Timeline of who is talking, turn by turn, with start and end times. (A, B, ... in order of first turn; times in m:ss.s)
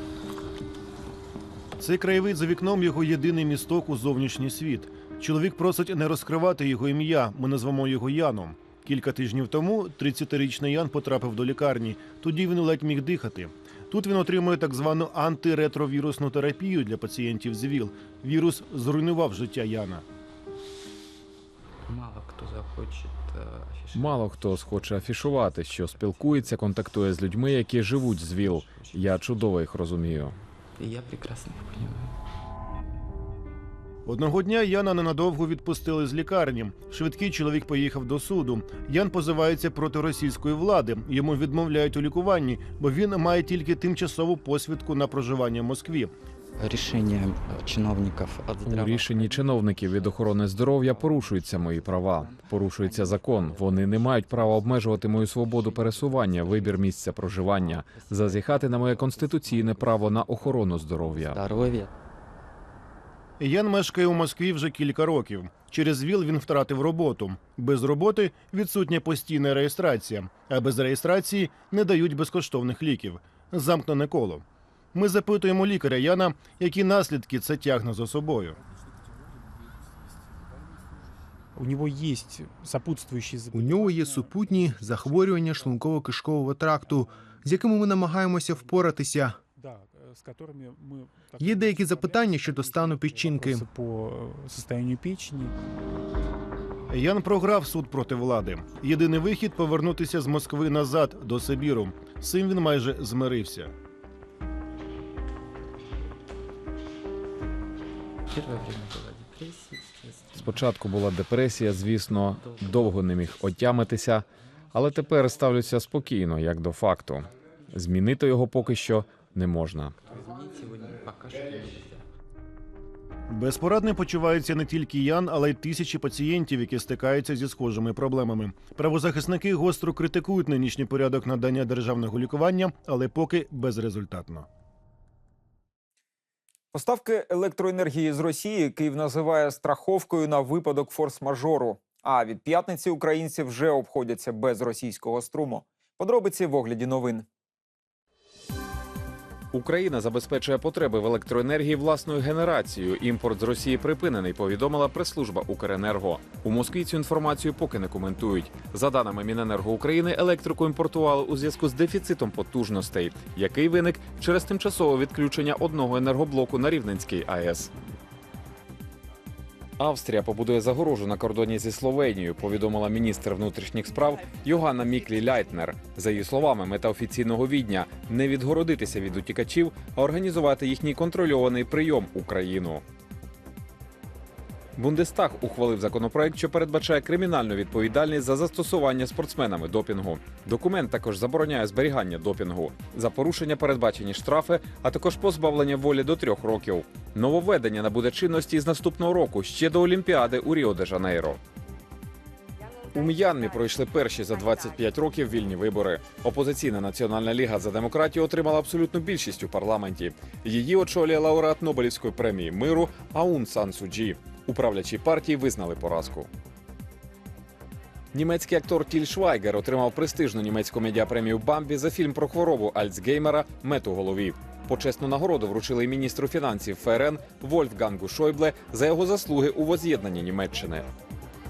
0:01.8-0:20.0 A
0:21.9-0:24.2 B
0:23.9-0:30.4 C
0:26.0-0:26.5 B
0:28.4-0:29.1 B
0:30.8-0:32.1 B
0:34.0-0:46.1 A
0:46.6-1:01.9 B
0:48.6-1:01.4 C
1:03.4-1:18.6 A
1:21.6-1:26.0 D
1:23.5-1:29.4 E
1:26.9-1:27.2 D
1:29.6-1:35.6 D
1:31.4-1:33.6 E
1:36.9-1:43.7 A
1:48.3-1:50.4 B
1:50.3-2:00.0 C
1:52.4-1:53.0 B
2:00.1-2:02.0 B
2:03.3-2:14.5 A
2:16.7-2:27.2 F
2:29.5-2:47.7 C
2:49.8-3:02.8 C
3:04.8-3:21.4 C
3:22.9-3:36.3 C
3:38.1-3:50.8 C